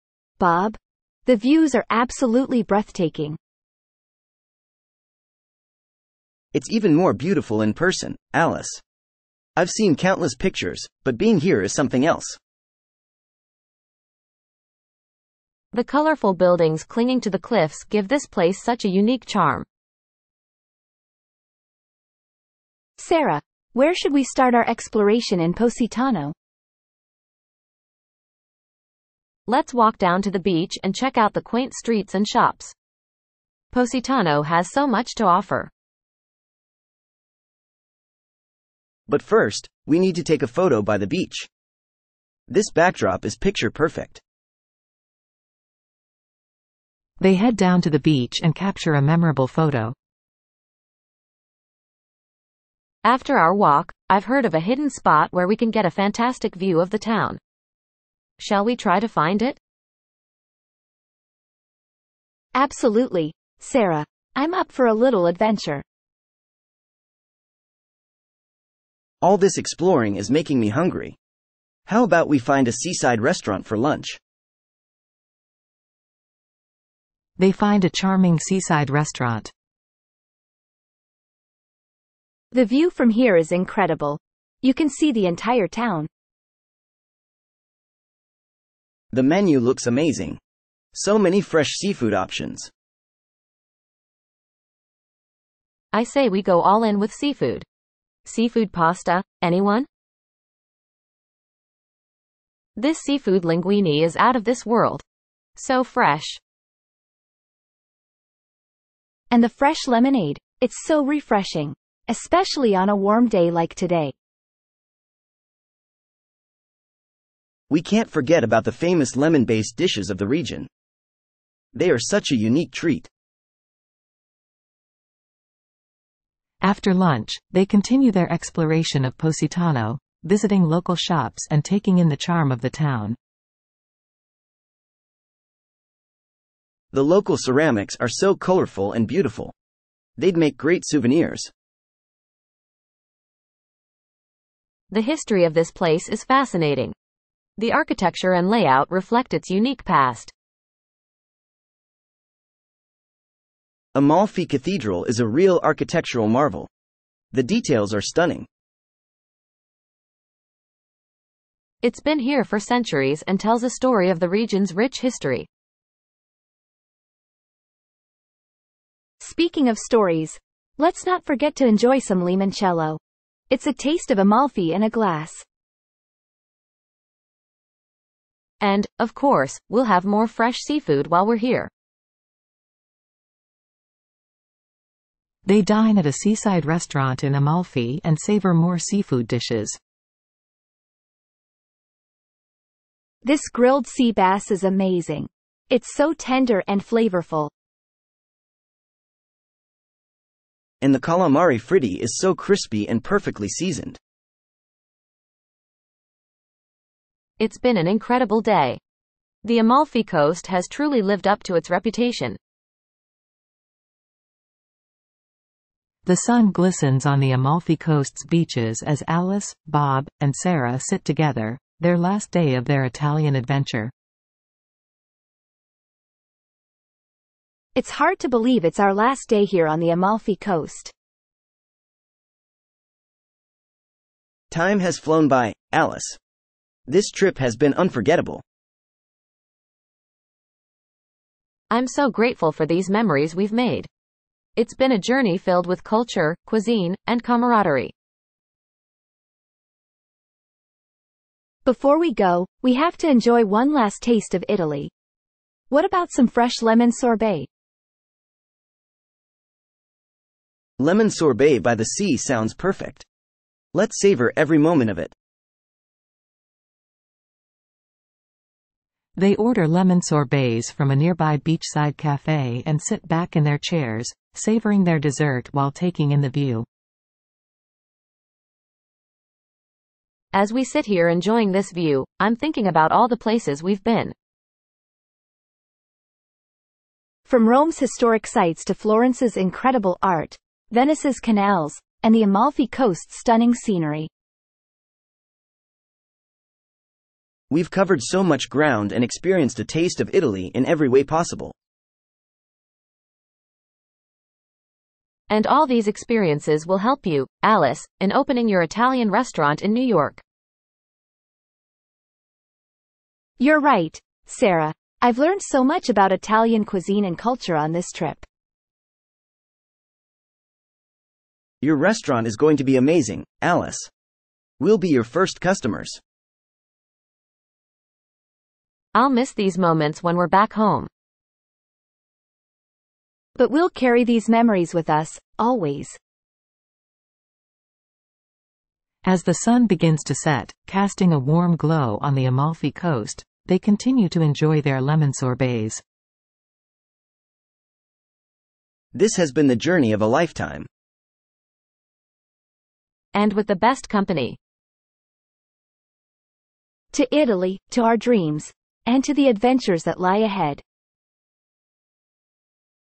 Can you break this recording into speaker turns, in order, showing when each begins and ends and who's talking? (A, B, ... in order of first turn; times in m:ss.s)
0:00.4-0:03.4 A
0:06.5-0:08.8 B
0:09.6-0:12.4 B
0:15.7-0:19.6 C
0:23.0-0:26.3 A
0:29.5-0:32.7 C
0:33.7-0:35.7 C
0:39.1-0:41.5 B
0:42.5-0:44.2 B
0:47.2-0:49.9 D
0:53.0-0:57.4 C
0:58.4-0:59.6 C
1:02.5-1:05.8 A
1:09.2-1:11.2 B
1:11.8-1:14.2 B
1:17.4-1:19.5 D
1:22.5-1:26.1 A
1:29.1-1:30.4 B
1:30.9-1:32.7 B
1:35.9-1:37.6 C
1:38.2-1:39.9 C
1:42.8-1:45.0 C
1:45.6-1:46.4 C
1:49.3-1:54.1 A
1:57.7-2:00.7 B
2:01.7-2:03.1 B
2:06.6-2:13.2 D
2:16.9-2:19.5 B
2:20.2-2:21.5 B
2:24.9-2:26.9 C
2:27.6-2:30.3 C
2:33.9-2:36.7 B
2:37.3-2:38.5 B
2:41.8-2:45.5 C
2:49.2-2:55.4 A
2:58.6-3:01.7 C
3:05.4-3:09.8 D
3:13.2-3:17.5 A
3:20.8-3:24.0 B
3:27.4-3:28.8 C
3:29.4-3:32.4 C
3:36.0-3:43.9 D
3:47.7-3:50.9 A
3:54.5-3:56.2 B
3:56.9-3:58.4 B
4:01.7-4:03.9 C
4:04.6-4:07.9 C
4:11.6-4:14.9 A
4:15.7-4:17.5 A
4:20.8-4:23.0 B
4:23.7-4:25.1 B
4:29.2-4:36.6 D
4:40.3-4:44.1 C
4:47.3-4:54.1 A
4:57.5-5:01.5 B
5:05.3-5:10.2 C
5:13.4-5:18.2 A
5:21.6-5:23.9 B
5:24.6-5:26.0 B
5:28.9-5:30.9 C
5:33.4-5:36.0 A
5:39.0-5:45.8 D
5:48.9-5:50.7 B
5:53.1-5:54.4 C
5:56.9-6:00.6 A